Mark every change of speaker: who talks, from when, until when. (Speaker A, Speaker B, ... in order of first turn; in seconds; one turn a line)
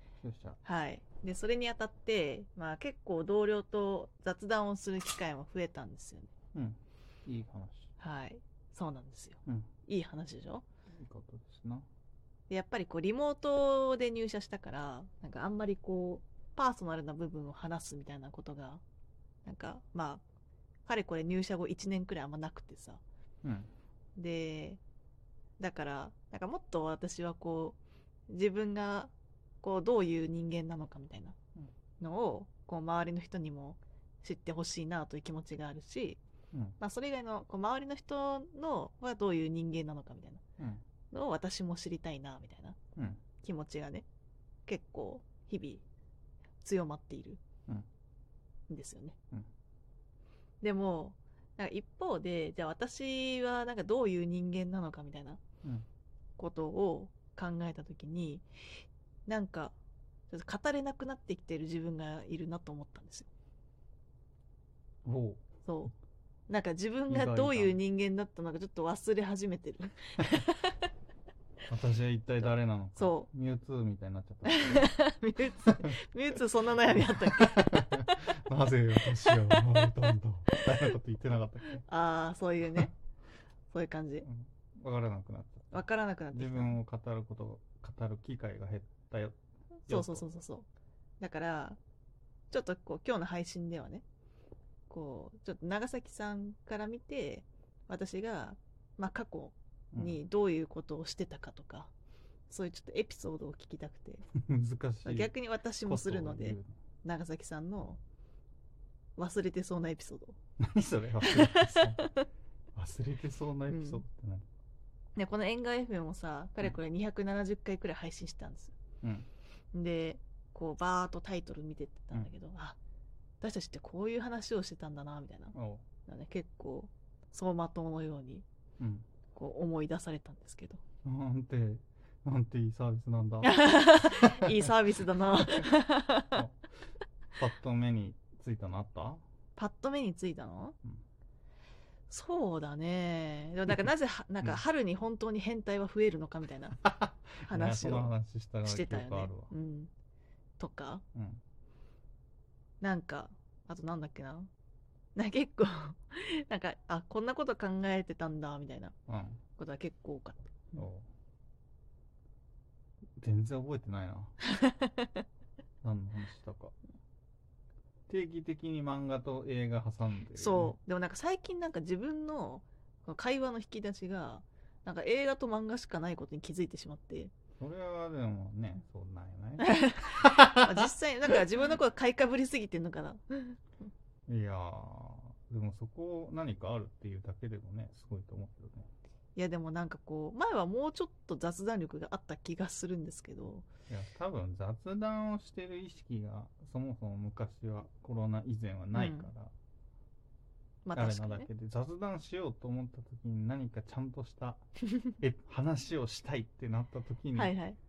Speaker A: 0.2-0.6
Speaker B: 0.6-6.3
Speaker A: 6.5-7.9
Speaker B: 8.0-10.6
Speaker A: 10.9-11.8
Speaker B: 12.5-18.8
Speaker B: 19.4-20.2
Speaker B: 20.9-23.0
Speaker A: 23.4-23.7
Speaker B: 24.2-24.8
Speaker B: 25.6-27.8
Speaker B: 28.3-31.4
Speaker B: 32.0-36.2
Speaker A: 36.5-36.8
Speaker B: 36.8-40.4
Speaker B: 41.1-42.8
Speaker A: 43.0-43.2
Speaker B: 43.4-44.0
Speaker B: 44.7-45.8
Speaker B: 46.6-47.4
Speaker B: 48.7-49.1
Speaker B: 50.6-55.4
Speaker B: 56.4-59.8
Speaker B: 60.3-63.3
Speaker A: 65.0-65.4
Speaker B: 65.6-65.9
Speaker B: 66.5-70.8
Speaker A: 67.1-67.8
Speaker A: 71.7-74.9
Speaker B: 73.0-73.3
Speaker B: 74.4-78.2
Speaker A: 75.6-76.0
Speaker A: 76.7-81.8
Speaker B: 79.3-79.9
Speaker B: 81.8-82.9
Speaker B: 83.7-84.2
Speaker A: 84.2-90.2
Speaker B: 85.7-86.8
Speaker B: 89.9-90.7
Speaker B: 91.2-91.8
Speaker B: 92.5-94.0
Speaker B: 94.9-101.9
Speaker A: 99.9-100.2
Speaker B: 102.5-104.2
Speaker A: 104.3-106.8
Speaker B: 105.0-108.0
Speaker B: 109.2-110.4
Speaker A: 110.6-112.1
Speaker B: 111.2-112.2
Speaker A: 112.7-114.5
Speaker B: 113.7-114.0
Speaker B: 115.2-118.7
Speaker A: 119.0-119.3
Speaker B: 119.7-122.8
Speaker B: 123.4-125.5
Speaker A: 125.5-125.8
Speaker B: 126.0-128.4
Speaker A: 128.8-129.1
Speaker B: 129.3-130.8
Speaker A: 131.0-134.7
Speaker B: 133.4-136.4
Speaker A: 135.3-136.6
Speaker A: 137.4-139.2
Speaker B: 139.6-140.8
Speaker B: 142.1-146.8
Speaker A: 146.8-149.5
Speaker B: 147.4-148.1
Speaker B: 148.6-149.9
Speaker B: 150.6-151.0
Speaker A: 151.1-151.4
Speaker B: 152.8-154.5
Speaker B: 155.1-158.9
Speaker A: 159.1-159.4
Speaker B: 159.6-160.8
Speaker A: 160.7-161.1
Speaker A: 163.2-164.4
Speaker B: 164.5-165.2
Speaker A: 165.8-166.7
Speaker A: 168.1-170.8
Speaker B: 170.3-177.3
Speaker A: 177.6-180.9
Speaker B: 179.6-183.6
Speaker A: 184.3-188.9
Speaker B: 189.3-193.7
Speaker A: 193.9-199.5
Speaker B: 198.9-199.3
Speaker B: 200.8-201.5
Speaker A: 200.9-204.7
Speaker A: 205.2-207.5
Speaker B: 207.3-207.8